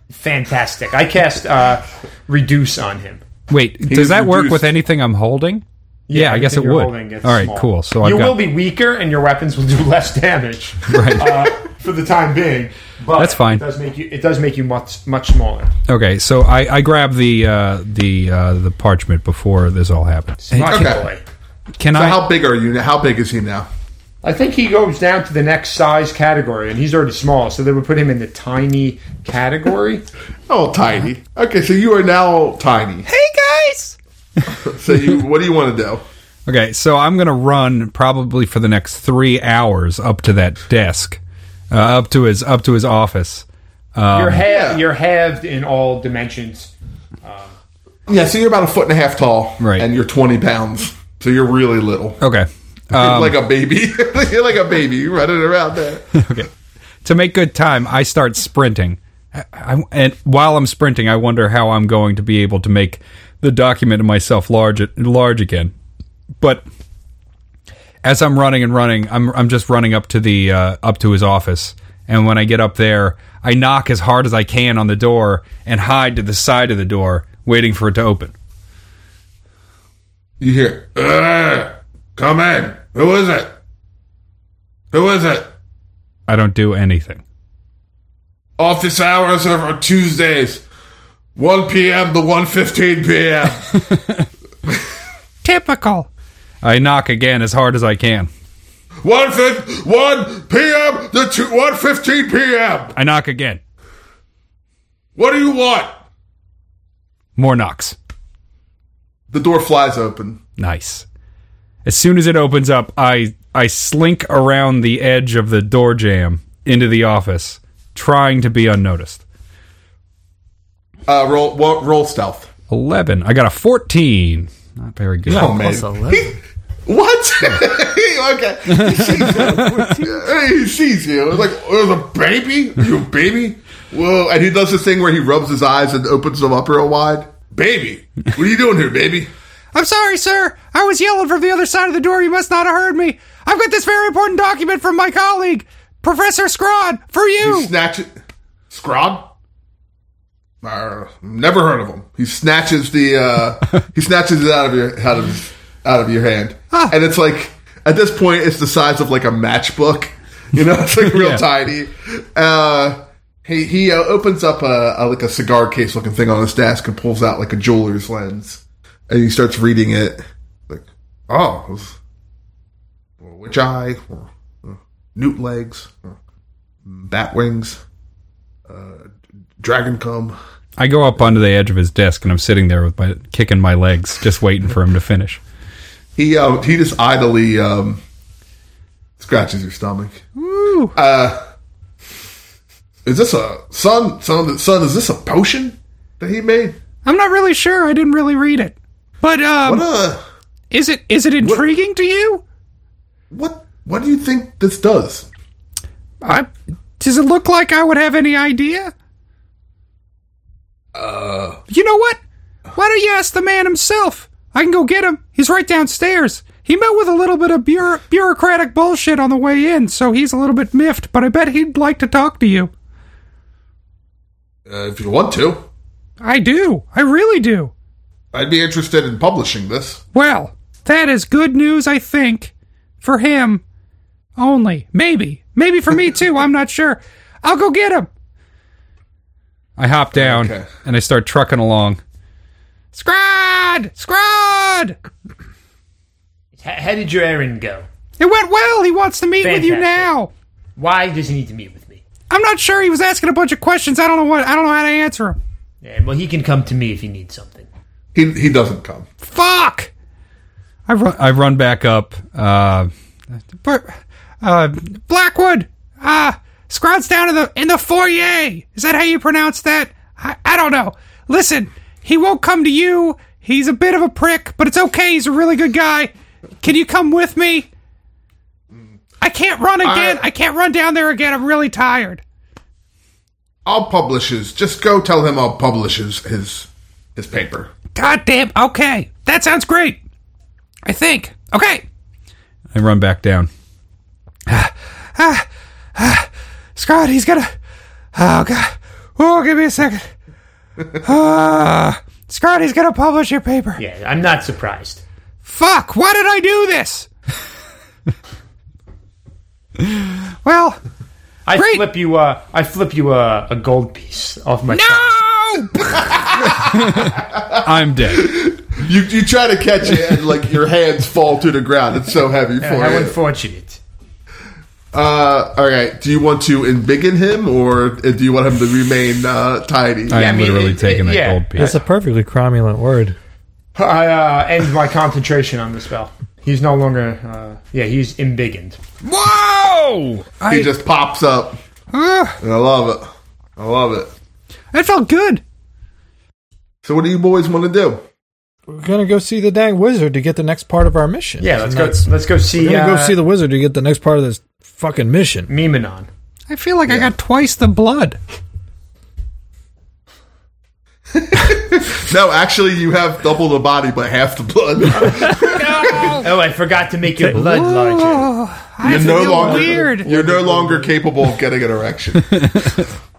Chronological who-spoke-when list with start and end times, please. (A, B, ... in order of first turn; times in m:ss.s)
0:00.1-0:03.2 A
0:03.5-0:08.4 B
0:03.9-0:04.7 C
0:06.1-0:15.7 A
0:10.9-0:11.4 B
0:13.2-0:13.6 B
0:15.9-0:20.9 B
0:20.4-0:21.2 A
0:20.6-0:21.0 C
0:21.8-0:22.2 B
0:21.9-0:23.7 C
0:24.2-0:30.0 A
0:30.5-0:33.1 C
0:33.1-0:34.0 D
0:34.5-0:36.0 C
0:36.4-0:41.2 B
0:41.7-0:43.4 B
0:44.0-0:44.4 B
0:44.1-0:46.7 A
0:44.4-0:44.8 C
0:47.2-0:47.5 A
0:48.1-0:52.2 C
0:49.6-0:49.8 B
0:52.2-0:53.4 B
0:52.9-0:56.3 C
0:56.1-0:56.5 B
0:57.0-1:05.7 B
1:08.0-1:18.3 B
1:20.4-1:23.5 C
1:24.9-1:25.5 C
1:26.3-1:27.2 B
1:28.6-1:30.6 C
1:31.4-1:33.8 C
1:33.7-1:34.2 B
1:35.4-1:36.1 D
1:36.6-1:38.3 B
1:39.0-1:43.0 C
1:42.9-1:43.6 B
1:45.2-1:46.0 C
1:47.4-1:48.0 B
1:49.3-1:50.4 C
1:50.6-1:51.0 B
1:51.8-1:59.2 B
2:01.1-2:02.5 C
2:02.7-2:05.5 B
2:05.2-2:06.3 E
2:05.3-2:19.3 C
2:08.8-2:09.8 B
2:19.7-2:27.7 D
2:27.4-2:28.1 C
2:28.7-2:29.3 C
2:30.6-2:52.0 C
2:41.1-2:41.4 B
2:53.2-2:56.1 C
2:56.8-2:57.8 C
2:58.7-3:00.4 C
3:00.8-3:05.4 B
3:06.2-3:08.0 C
3:09.2-3:10.2 C
3:10.4-3:10.9 D
3:10.9-3:11.4 C
3:13.0-3:16.8 C
3:17.0-3:19.8 D
3:19.6-3:20.2 C
3:20.7-3:22.4 D
3:23.3-3:25.3 C
3:26.2-3:28.9 D
3:30.9-3:31.6 C
3:31.7-3:32.2 D
3:32.7-3:42.7 D
3:44.7-3:45.6 C
3:46.2-3:47.7 D
3:48.3-3:50.0 C
3:50.1-3:53.6 D
3:54.4-3:58.1 D
3:59.8-4:02.0 B
4:00.1-4:00.7 C
4:02.9-4:05.0 D
4:06.6-4:07.8 A
4:08.2-4:10.3 D
4:09.4-4:10.1 A
4:10.8-4:12.0 A
4:12.3-4:15.4 D
4:15.8-4:17.7 A
4:18.1-4:19.1 C
4:19.2-4:19.9 D
4:21.0-4:22.9 B
4:23.6-4:23.9 D
4:24.4-4:37.7 D
4:39.2-4:42.2 D
4:39.8-4:40.2 C
4:43.6-4:47.7 C
4:47.9-4:50.0 D
4:50.8-4:51.8 D
4:52.7-4:53.5 B
4:54.5-4:57.5 D
4:58.1-5:00.1 D
5:01.0-5:03.8 D
5:03.8-5:05.0 A
5:05.4-5:07.1 D
5:10.4-5:10.8 D
5:11.4-5:15.1 A
5:11.5-5:11.8 D
5:14.7-5:16.1 D
5:15.9-5:23.1 C
5:16.7-5:18.3 B
5:22.6-5:23.8 A
5:24.9-5:30.3 C
5:30.1-5:31.6 A
5:30.1-5:31.8 B
5:31.5-5:33.2 E
5:33.8-5:38.8 A
5:39.0-5:40.7 D
5:39.5-5:40.2 B
5:40.4-5:41.6 C
5:41.9-5:42.4 D
5:42.4-5:44.1 C
5:44.7-5:45.4 D
5:46.8-5:48.0 C
5:48.7-5:55.5 E
5:51.4-5:53.2 A
5:55.5-5:56.1 A
5:56.5-5:58.2 D
5:56.9-5:57.1 C
6:01.1-6:06.2 C
6:05.4-6:06.2 D
6:06.2-6:08.3 A
6:07.4-6:10.1 D
6:08.8-6:12.4 C
6:08.8-6:10.9 E
6:12.2-6:12.9 B